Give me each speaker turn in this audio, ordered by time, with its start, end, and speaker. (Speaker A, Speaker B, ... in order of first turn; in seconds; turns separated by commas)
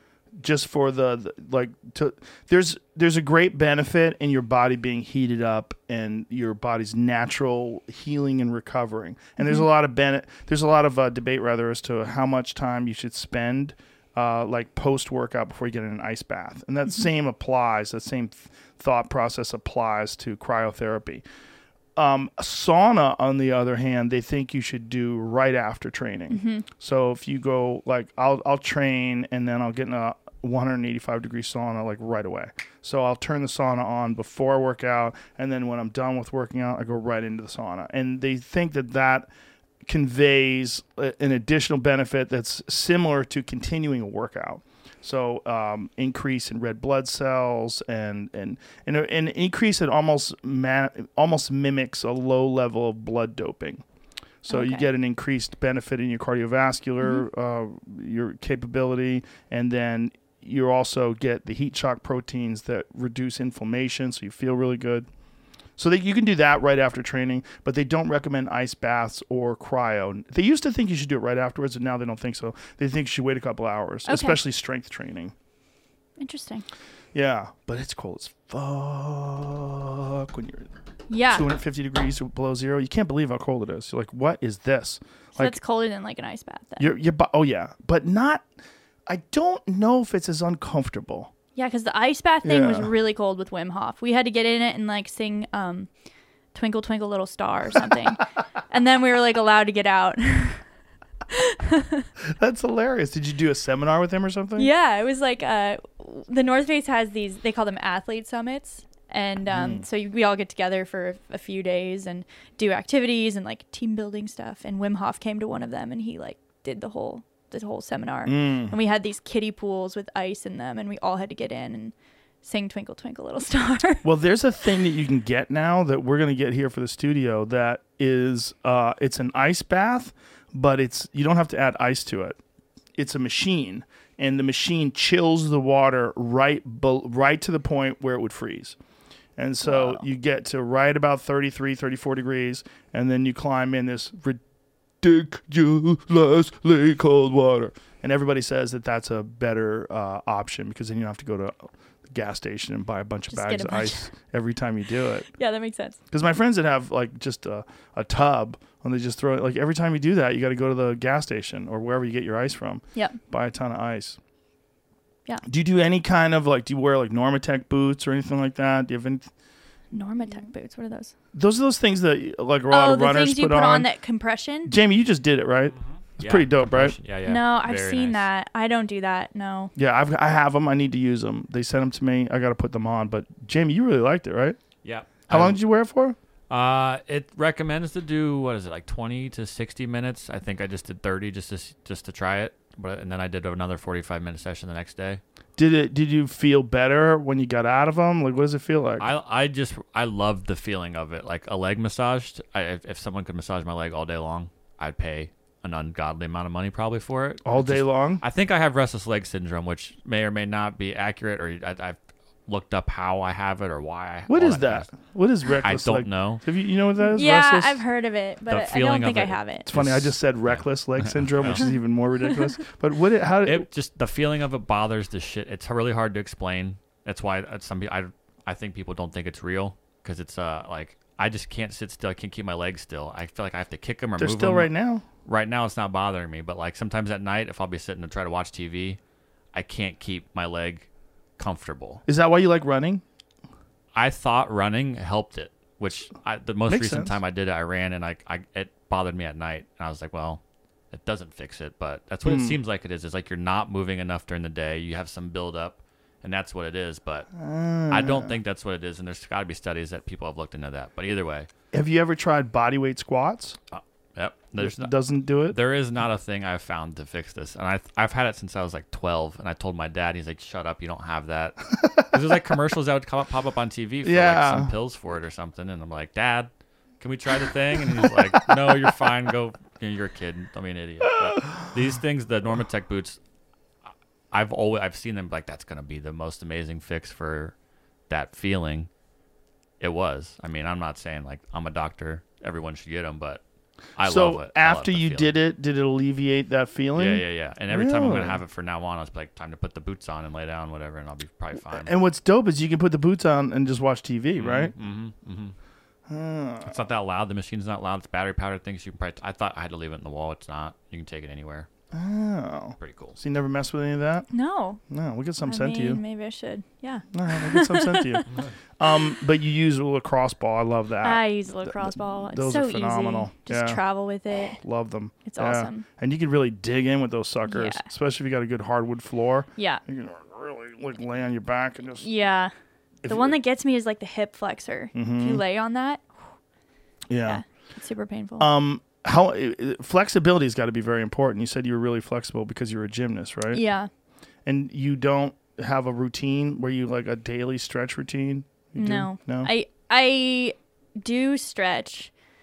Speaker A: 0.3-21.2, Speaker B: 9.4-9.6, Speaker A: 22.0-39.3, Speaker B: 26.3-26.7, Speaker A: 39.9-53.9, Speaker A: 54.4-65.1, Speaker B: 54.5-54.9, Speaker A: 65.8-75.3, Speaker B: 74.1-74.4, Speaker B: 76.2-76.7, Speaker A: 77.1-80.7, Speaker B: 81.1-81.5, Speaker A: 81.3-85.5, Speaker B: 85.4-86.9, Speaker A: 86.8-88.5, Speaker A: 89.1-91.3, Speaker B: 91.6-95.9, Speaker A: 92.4-92.9, Speaker B: 96.5-100.7, Speaker B: 101.3-102.1, Speaker A: 102.2-104.7, Speaker B: 104.6-124.0, Speaker A: 109.5-109.8, Speaker A: 118.3-118.8, Speaker A: 124.0-132.4, Speaker A: 132.9-138.8, Speaker A: 139.4-144.4, Speaker B: 139.7-140.0, Speaker A: 145.0-155.3, Speaker B: 153.3-154.1, Speaker B: 155.4-156.0, Speaker A: 156.1-164.2, Speaker A: 165.4-169.3, Speaker B: 169.9-171.1, Speaker A: 171.3-173.9, Speaker B: 172.7-174.7, Speaker A: 174.7-177.0, Speaker C: 176.0-178.3, Speaker B: 177.3-179.7, Speaker A: 179.8-184.6, Speaker C: 184.8-185.6, Speaker A: 185.2-186.2, Speaker C: 186.5-195.2, Speaker A: 195.6-199.1, Speaker C: 199.0-214.9, Speaker A: 207.4-208.2, Speaker A: 214.3-217.8, Speaker C: 215.6-216.4, Speaker B: 217.0-219.7, Speaker C: 218.5-221.7, Speaker A: 219.7-223.7, Speaker C: 223.4-234.7, Speaker A: 234.2-235.0, Speaker C: 235.2-239.0, Speaker C: 239.5-242.0, Speaker A: 242.1-243.0, Speaker C: 243.9-257.3, Speaker A: 246.7-247.2, Speaker A: 252.2-252.6, Speaker A: 257.3-258.4, Speaker C: 257.9-261.5, Speaker A: 261.7-263.6, Speaker C: 263.7-264.9, Speaker A: 264.6-265.6, Speaker C: 265.4-283.2, Speaker A: 271.8-272.2, Speaker A: 274.0-274.7, Speaker A: 277.9-278.2, Speaker A: 281.2-281.6, Speaker C: 284.3-287.6, Speaker C: 288.1-288.9, Speaker C: 289.8-293.4, Speaker C: 294.0-295.3, Speaker A: 294.0-298.4, Speaker C: 297.0-301.9, Speaker A: 301.7-304.7, Speaker C: 304.4-305.6, Speaker A: 306.1-306.8, Speaker C: 306.6-311.7, Speaker A: 311.9-314.3, Speaker C: 312.8-313.2, Speaker B: 314.3-314.8, Speaker A: 314.9-316.0, Speaker B: 315.4-318.2, Speaker A: 317.1-323.8, Speaker B: 321.0-324.6, Speaker A: 324.4-332.1, Speaker B: 325.2-325.9, Speaker B: 327.5-327.8, Speaker B: 329.6-329.8, Speaker B: 332.0-332.5, Speaker A: 333.0-333.4, Speaker B: 333.1-336.1, Speaker A: 334.9-335.4, Speaker A: 337.1-337.4, Speaker B: 337.2-338.5, Speaker A: 338.4-343.6, Speaker B: 343.5-343.9, Speaker A: 344.5-349.5, Speaker B: 348.8-352.1